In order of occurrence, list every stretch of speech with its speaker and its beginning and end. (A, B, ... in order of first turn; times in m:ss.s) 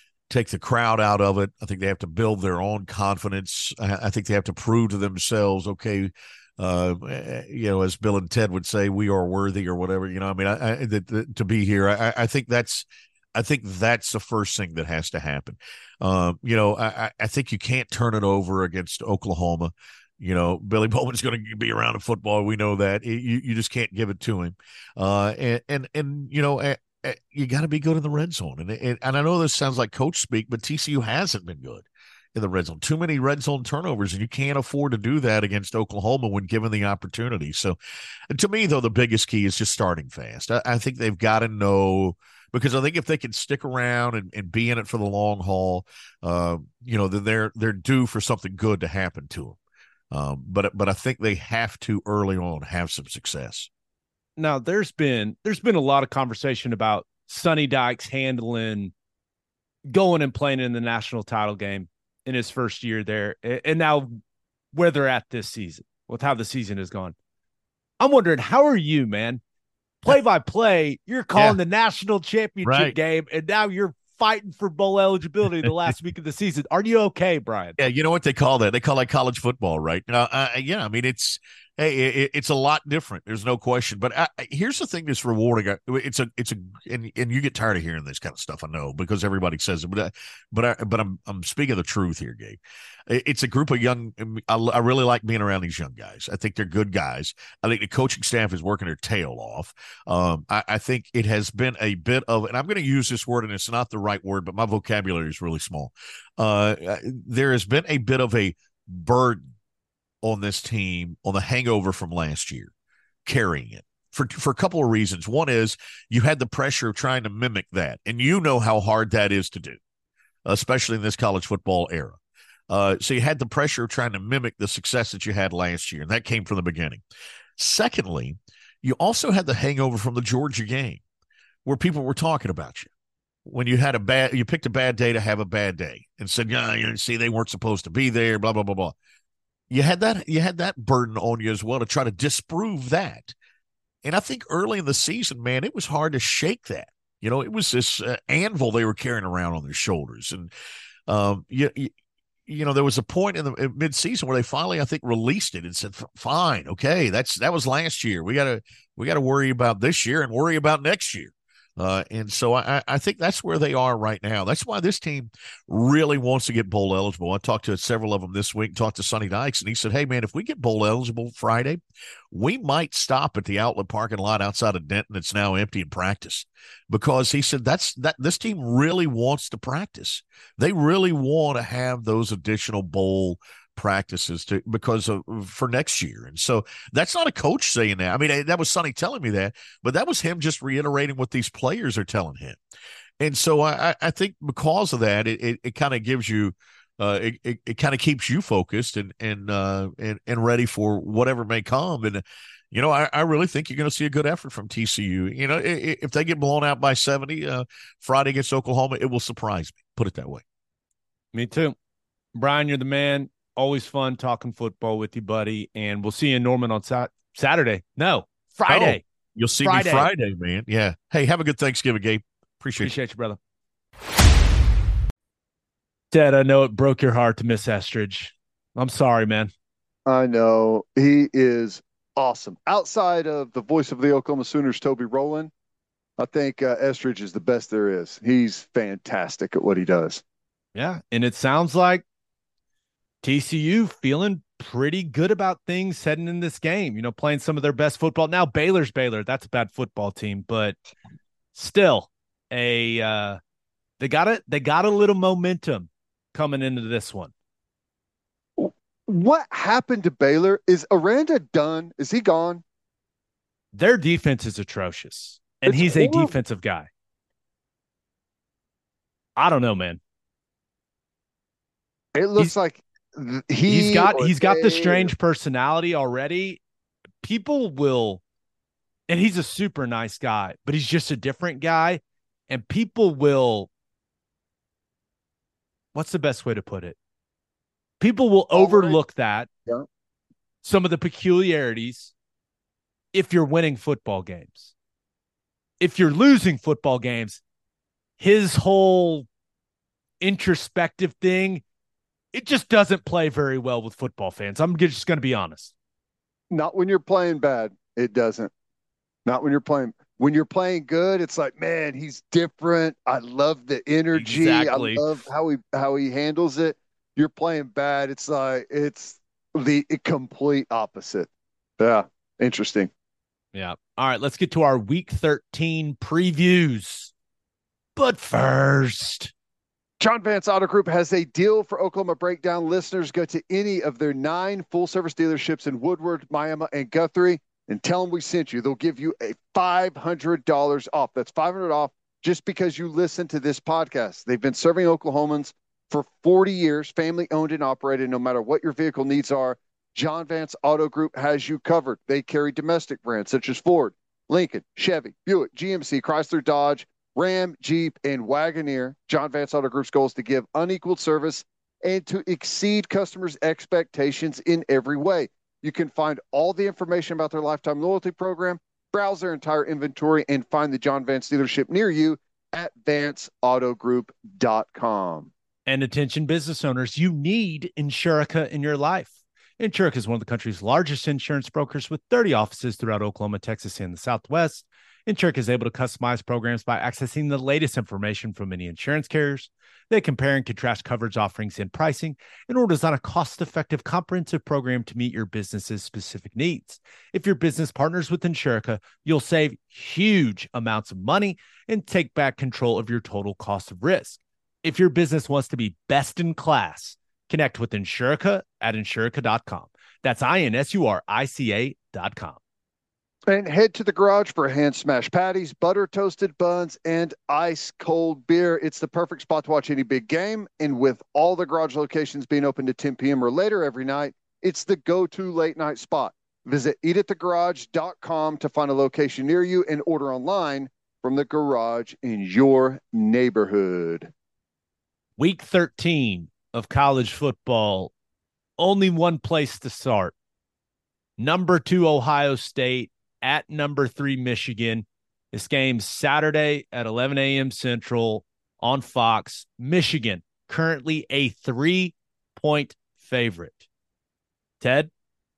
0:00.3-0:37.8 A
0:38.3-0:49.6 A
0:50.1-0:53.7 A
0:54.4-0:58.9 B
0:59.9-1:04.2 B
1:04.7-1:07.2 B
1:08.0-1:09.4 B
1:10.0-1:17.8 B
1:12.6-1:13.0 A
1:17.8-1:49.5 A
1:50.2-1:52.7 A
1:53.3-1:59.8 A
2:00.5-2:02.2 A
2:02.7-2:07.0 A
2:07.6-2:11.0 A
2:11.6-2:12.9 A
2:13.4-2:19.0 A
2:19.7-2:23.3 A
2:24.0-2:30.5 A
2:31.1-2:31.9 A
2:32.5-2:51.8 A
2:52.3-3:12.6 A
3:13.2-3:30.4 A
3:31.3-3:31.8 B
3:32.4-3:39.0 B
3:38.7-3:42.9 A
3:39.6-3:40.1 B
3:42.8-3:43.4 B
3:46.1-3:49.5 B
3:50.1-3:55.5 C
3:56.2-4:00.2 C
4:00.8-4:02.0 B
4:03.2-4:10.8 B
4:11.6-4:13.4 B
4:14.0-4:17.3 B
4:18.6-4:22.6 C
4:23.7-4:26.9 B
4:25.7-4:26.3 C
4:29.4-4:30.0 B
4:32.2-4:35.1 C
4:33.7-4:36.6 B
4:37.2-4:38.2 B
4:39.1-4:43.7 B
4:45.9-4:47.0 B
4:48.0-4:49.5 B
4:48.6-4:49.0 C
4:50.6-4:52.1 B
4:53.1-4:54.7 B
4:55.8-4:57.4 B
4:58.2-4:59.3 B
5:00.2-5:01.6 B
5:02.3-5:05.7 B
5:06.5-5:08.5 C
5:09.3-5:22.9 C
5:14.1-5:15.2 B
5:23.5-5:27.1 B
5:28.0-5:29.3 B
5:30.0-6:15.3 C
6:15.7-6:52.4 B
6:53.3-7:14.1 C
7:15.2-7:17.9 B
7:18.6-7:20.2 B
7:21.2-7:33.6 B
7:34.6-7:34.9 B